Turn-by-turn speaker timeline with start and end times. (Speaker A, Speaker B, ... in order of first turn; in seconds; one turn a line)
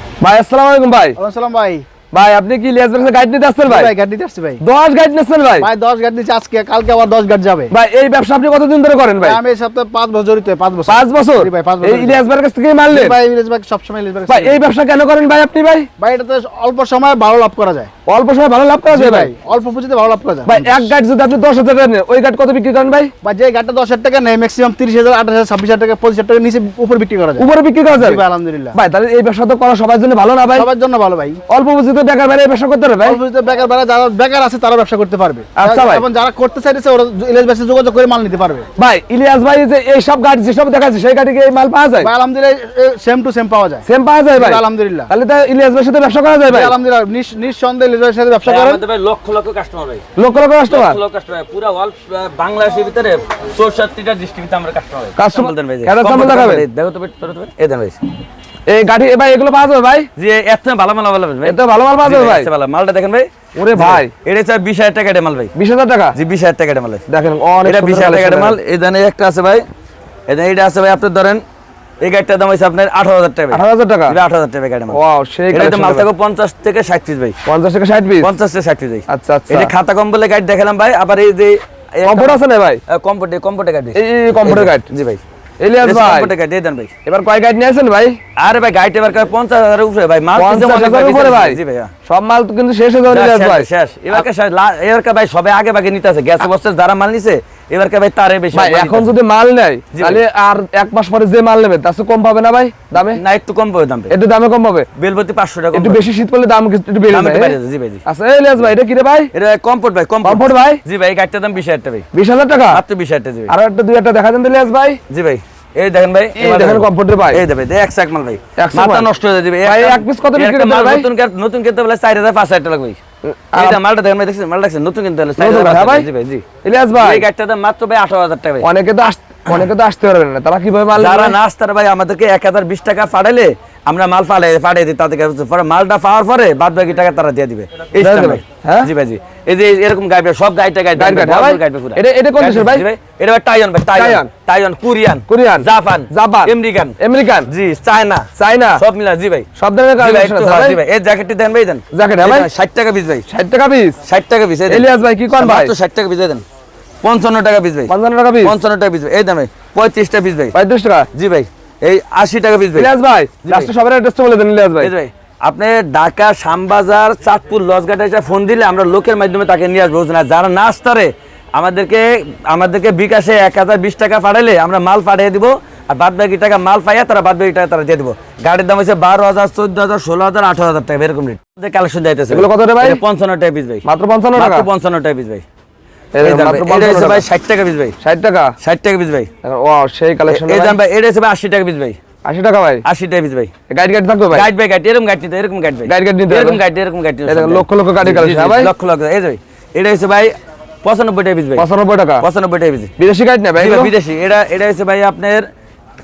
Speaker A: 0.2-1.2
Speaker B: 1.1-1.8
Speaker A: 2.1-3.9
Speaker B: 3.6-4.6
Speaker A: 4.6-5.7
Speaker B: 5.6-7.7
Speaker A: 7.7-9.4
Speaker B: 9.2-12.2
Speaker A: 10.9-13.2
Speaker B: 12.9-14.7
Speaker A: 14.3-15.9
Speaker B: 16.0-17.9
Speaker A: 18.1-19.3
Speaker B: 18.9-20.9
Speaker A: 20.4-23.1
Speaker B: 23.2-28.8
Speaker A: 27.4-28.2
Speaker A: 28.7-30.7
Speaker B: 30.5-31.4
Speaker A: 31.5-33.2
Speaker B: 33.0-38.7
Speaker A: 35.5-36.0
Speaker A: 38.8-42.1
Speaker B: 42.0-45.1
Speaker A: 43.9-46.7
Speaker B: 46.4-48.8
Speaker C: 48.4-50.0
Speaker A: 50.2-51.0
Speaker C: 50.6-58.0
Speaker A: 55.2-56.6
Speaker A: 58.7-60.1
Speaker C: 60.1-65.5
Speaker A: 61.4-62.5
Speaker A: 63.6-64.1
Speaker A: 65.5-66.1
Speaker C: 66.1-67.0
Speaker A: 67.1-68.5
Speaker C: 67.6-69.6
Speaker C: 70.3-71.4
Speaker C: 72.0-75.0
Speaker A: 73.5-74.2
Speaker A: 74.9-76.0
Speaker C: 75.5-77.3
Speaker A: 77.4-78.3
Speaker C: 78.2-85.2
Speaker A: 79.1-79.7
Speaker A: 82.0-82.8
Speaker A: 83.9-84.9
Speaker A: 85.6-86.3
Speaker C: 85.8-86.9
Speaker A: 87.0-88.2
Speaker C: 88.4-91.9
Speaker A: 90.3-94.2
Speaker C: 93.1-99.1
Speaker A: 98.5-103.2
Speaker C: 99.9-100.2
Speaker C: 102.9-104.1
Speaker A: 104.1-104.9
Speaker C: 105.0-106.0
Speaker A: 105.7-109.3
Speaker C: 107.1-108.0
Speaker C: 109.3-112.0
Speaker A: 110.2-110.8
Speaker A: 112.1-112.8
Speaker C: 112.7-113.5
Speaker A: 113.5-115.0
Speaker C: 115.1-123.0
Speaker A: 116.3-117.4
Speaker A: 118.6-119.1
Speaker A: 119.6-121.1
Speaker A: 123.2-123.8
Speaker C: 123.5-128.7
Speaker A: 125.4-126.1
Speaker A: 126.6-127.2
Speaker A: 128.6-131.3
Speaker C: 130.9-153.2
Speaker A: 138.0-138.9
Speaker A: 141.0-142.8
Speaker A: 143.9-144.3
Speaker A: 145.3-147.5
Speaker A: 148.4-148.8
Speaker A: 149.6-150.8
Speaker A: 151.9-152.5
Speaker A: 153.3-154.0
Speaker C: 154.0-156.4
Speaker A: 154.7-155.7
Speaker C: 157.0-160.5
Speaker A: 157.9-158.5
Speaker A: 160.5-161.1
Speaker C: 161.1-162.9
Speaker A: 162.8-164.9
Speaker C: 163.4-163.7
Speaker C: 164.8-183.8
Speaker A: 182.3-183.0
Speaker A: 183.8-184.7
Speaker C: 184.3-185.4
Speaker A: 186.1-187.2
Speaker C: 186.2-187.9
Speaker A: 188.0-188.5
Speaker C: 188.6-189.3
Speaker A: 189.4-190.8
Speaker C: 190.3-192.0
Speaker A: 192.2-192.8
Speaker C: 192.8-193.5
Speaker A: 193.7-194.5
Speaker C: 194.3-200.3
Speaker A: 195.9-196.6
Speaker A: 197.2-198.7
Speaker C: 200.8-201.7
Speaker A: 201.6-202.2
Speaker C: 202.2-202.9
Speaker A: 203.0-203.9
Speaker C: 203.6-205.4